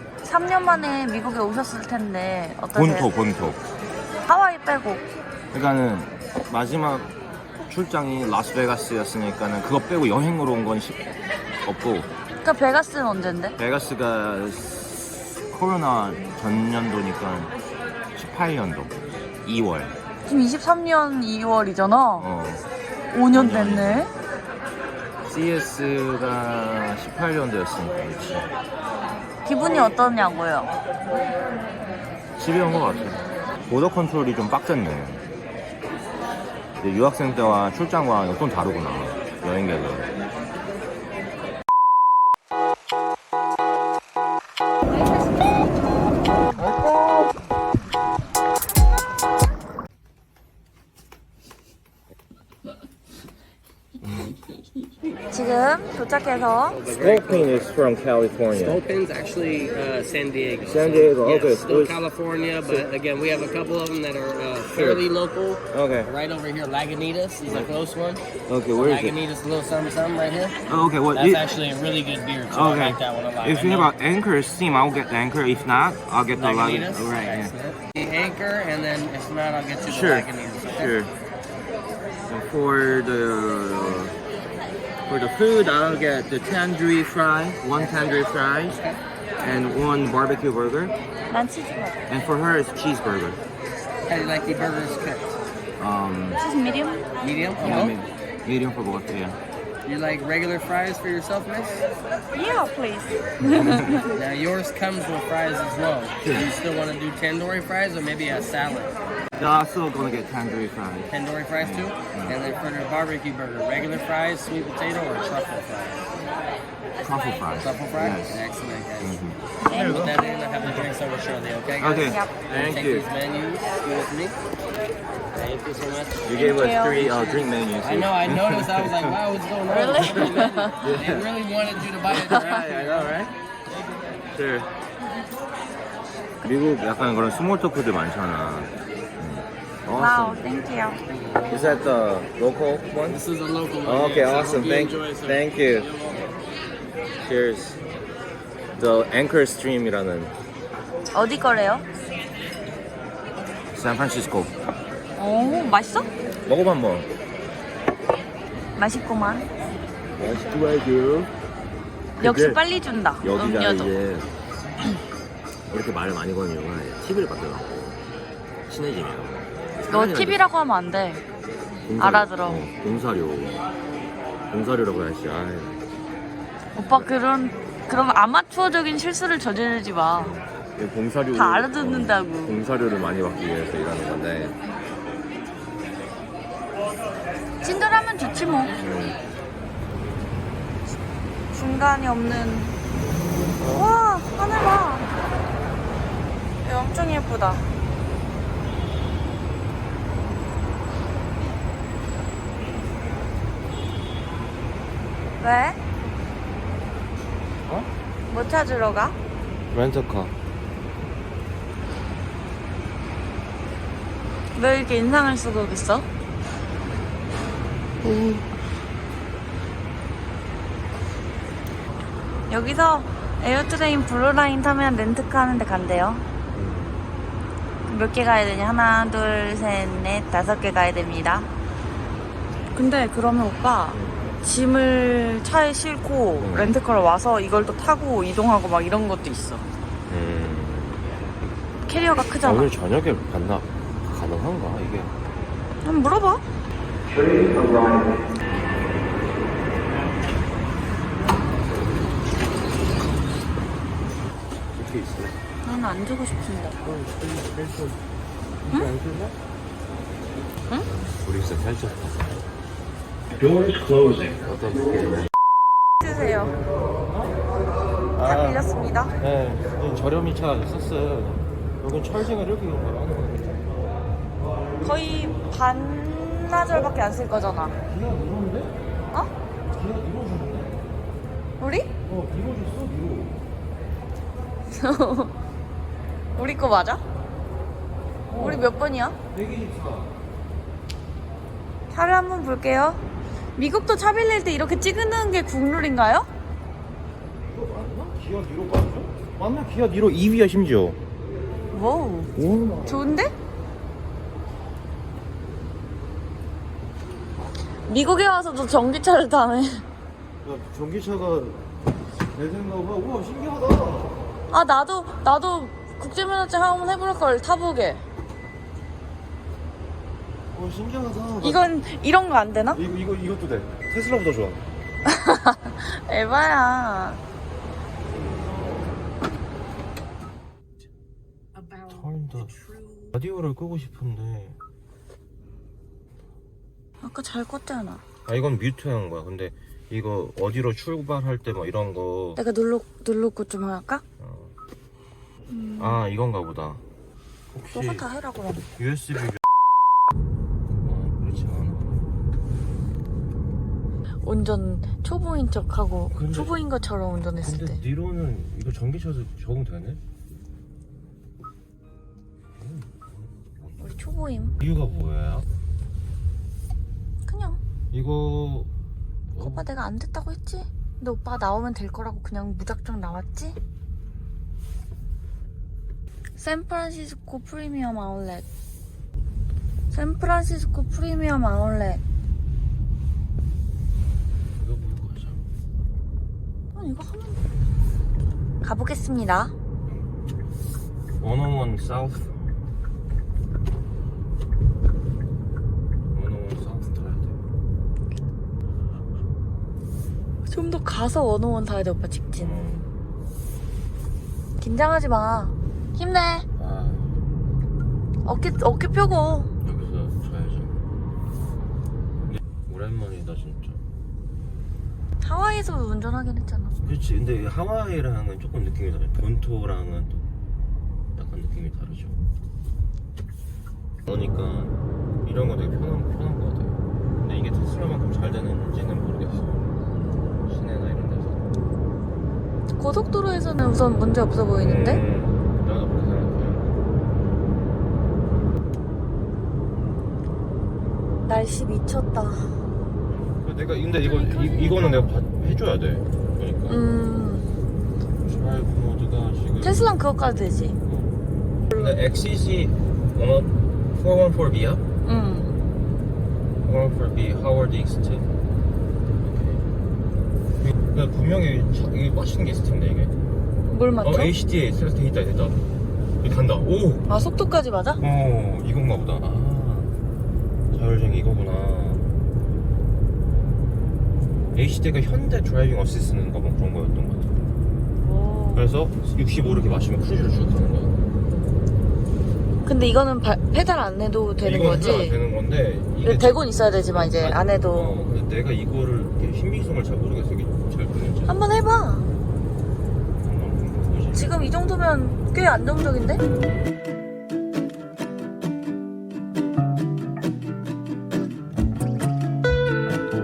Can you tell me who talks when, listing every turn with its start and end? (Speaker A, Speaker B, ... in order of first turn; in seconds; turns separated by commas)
Speaker A: 0.2-3.1, Speaker B: 2.7-3.6, Speaker A: 4.3-5.0, Speaker B: 5.5-11.1, Speaker B: 11.7-12.1, Speaker A: 12.4-13.6, Speaker B: 13.6-17.5, Speaker B: 18.1-19.9, Speaker A: 20.3-22.3, Speaker B: 22.2-22.6, Speaker A: 23.1-24.1, Speaker B: 23.3-24.1, Speaker B: 25.3-28.5, Speaker A: 29.4-30.7, Speaker B: 32.4-35.2, Speaker B: 36.8-40.1, Speaker B: 46.8-47.3, Speaker A: 55.3-56.8, Speaker C: 56.5-57.7, Speaker B: 56.9-58.8, Speaker C: 58.5-70.6, Speaker B: 60.6-62.0, Speaker B: 64.7-65.0, Speaker B: 65.7-66.1, Speaker B: 68.5-69.2, Speaker B: 70.7-71.5, Speaker C: 71.1-73.9, Speaker B: 72.5-77.5, Speaker C: 76.3-81.0, Speaker B: 79.8-81.1, Speaker B: 82.3-84.2, Speaker B: 85.1-88.8, Speaker C: 87.7-89.0, Speaker B: 89.4-90.9, Speaker A: 91.3-92.0, Speaker B: 92.1-93.4, Speaker C: 94.1-95.4, Speaker B: 95.8-96.4, Speaker A: 96.3-97.9, Speaker C: 97.2-98.0, Speaker B: 97.6-99.4, Speaker C: 99.8-101.8, Speaker A: 102.3-104.1, Speaker B: 103.4-104.1, Speaker C: 104.1-109.0, Speaker B: 106.2-106.5, Speaker B: 109.4-112.4, Speaker C: 111.1-116.1, Speaker B: 117.0-118.4, Speaker C: 117.6-124.4, Speaker B: 119.0-120.9, Speaker A: 119.6-120.2, Speaker B: 121.8-123.1, Speaker A: 122.0-122.4, Speaker C: 125.3-126.4, Speaker B: 126.2-129.2, Speaker A: 126.3-127.5, Speaker C: 127.8-133.2, Speaker A: 129.7-130.8, Speaker B: 130.0-131.3, Speaker B: 132.1-133.3, Speaker B: 134.3-134.7, Speaker B: 136.4-140.5, Speaker A: 139.9-141.0, Speaker C: 141.2-141.8, Speaker B: 141.5-143.2, Speaker C: 143.1-146.3, Speaker B: 143.8-145.9, Speaker B: 147.2-147.8, Speaker B: 148.8-150.3, Speaker A: 151.1-151.9, Speaker B: 153.7-154.5, Speaker A: 155.2-156.1, Speaker B: 156.5-157.1, Speaker A: 158.8-159.5, Speaker B: 160.2-161.3, Speaker B: 162.2-162.6, Speaker A: 162.2-163.9, Speaker B: 163.2-164.3, Speaker B: 165.7-167.9, Speaker B: 168.7-170.4, Speaker A: 169.9-171.2, Speaker B: 171.9-173.7, Speaker A: 172.0-172.6, Speaker B: 174.5-175.8, Speaker A: 176.8-180.3, Speaker B: 180.1-184.6, Speaker A: 181.3-182.6, Speaker A: 187.6-188.8, Speaker B: 188.8-189.2, Speaker A: 191.5-192.7, Speaker A: 193.6-195.1, Speaker A: 196.6-197.6, Speaker A: 205.4-205.8, Speaker A: 208.3-209.2, Speaker B: 209.7-210.3, Speaker A: 214.6-216.1, Speaker B: 218.0-218.5, Speaker A: 222.5-226.2, Speaker B: 226.5-227.0, Speaker A: 227.8-231.5, Speaker A: 232.7-239.7, Speaker B: 233.9-234.4, Speaker B: 236.4-236.7, Speaker B: 240.1-241.1, Speaker A: 241.9-242.7, Speaker B: 242.4-245.2, Speaker A: 245.8-246.4, Speaker B: 247.1-248.2, Speaker B: 254.7-255.4, Speaker A: 255.6-256.8, Speaker B: 256.8-258.0, Speaker B: 258.6-259.4, Speaker B: 261.2-262.3, Speaker B: 263.4-265.3, Speaker A: 266.0-266.6, Speaker B: 267.1-267.4, Speaker B: 268.2-268.6, Speaker A: 268.2-269.2, Speaker B: 269.2-273.6, Speaker B: 274.8-275.3, Speaker A: 274.8-277.8, Speaker B: 277.9-278.8, Speaker B: 279.7-280.8, Speaker A: 281.6-281.9, Speaker B: 282.1-283.4, Speaker A: 284.7-285.3, Speaker A: 286.4-287.0, Speaker B: 288.3-288.7, Speaker A: 288.3-289.2, Speaker B: 289.3-290.1, Speaker A: 291.9-293.0, Speaker A: 293.6-296.3, Speaker B: 297.4-301.0, Speaker A: 301.7-302.3, Speaker B: 302.4-303.1, Speaker A: 302.9-303.3, Speaker A: 307.9-309.9, Speaker B: 310.4-311.6, Speaker B: 312.3-314.2, Speaker A: 314.5-318.0, Speaker B: 320.5-321.7, Speaker A: 321.4-322.8, Speaker B: 322.7-324.6, Speaker A: 325.1-327.2, Speaker B: 328.1-328.6, Speaker B: 331.9-334.6, Speaker A: 337.0-338.0, Speaker B: 338.3-342.4, Speaker A: 342.4-344.0, Speaker B: 344.2-344.6, Speaker A: 345.5-346.0, Speaker B: 345.8-346.8, Speaker B: 347.5-348.1, Speaker A: 347.7-348.6, Speaker B: 348.7-349.4, Speaker B: 350.8-352.1, Speaker A: 354.2-357.8, Speaker B: 356.1-356.6, Speaker B: 357.4-360.0, Speaker B: 362.6-363.8, Speaker A: 363.8-364.6, Speaker B: 364.6-365.5, Speaker A: 367.3-367.6, Speaker B: 367.9-368.7, Speaker B: 369.3-369.7, Speaker A: 369.4-373.6, Speaker A: 376.4-378.4, Speaker A: 379.9-382.0, Speaker B: 384.6-385.5, Speaker A: 386.7-387.4, Speaker A: 388.6-389.5, Speaker B: 389.9-390.1, Speaker B: 391.2-392.5, Speaker B: 396.1-397.4, Speaker A: 400.5-402.7, Speaker B: 402.4-402.9, Speaker A: 404.6-406.5, Speaker B: 406.6-407.1, Speaker A: 408.2-409.5, Speaker B: 409.6-410.8, Speaker B: 412.3-413.8, Speaker A: 415.2-416.8, Speaker B: 416.8-420.3, Speaker B: 421.2-422.2, Speaker B: 424.1-429.7, Speaker B: 430.4-431.5, Speaker A: 432.8-435.0, Speaker B: 434.6-436.8, Speaker A: 441.3-442.6, Speaker B: 443.1-446.8, Speaker A: 444.0-445.1, Speaker A: 446.7-447.5, Speaker B: 448.2-449.9, Speaker A: 449.6-450.8, Speaker B: 450.9-454.8, Speaker A: 451.7-452.0, Speaker A: 455.1-455.6, Speaker B: 456.6-458.3, Speaker B: 459.2-459.6, Speaker B: 460.6-463.2, Speaker A: 463.7-464.3, Speaker B: 464.0-465.6, Speaker B: 466.2-467.1, Speaker A: 467.1-468.0, Speaker B: 468.0-470.0, Speaker B: 470.7-472.1, Speaker B: 474.5-477.3, Speaker A: 478.0-478.7, Speaker B: 478.6-481.0, Speaker A: 482.6-485.2, Speaker B: 484.4-491.4, Speaker A: 486.0-488.0, Speaker A: 491.3-492.1, Speaker B: 493.2-494.3, Speaker A: 494.1-496.2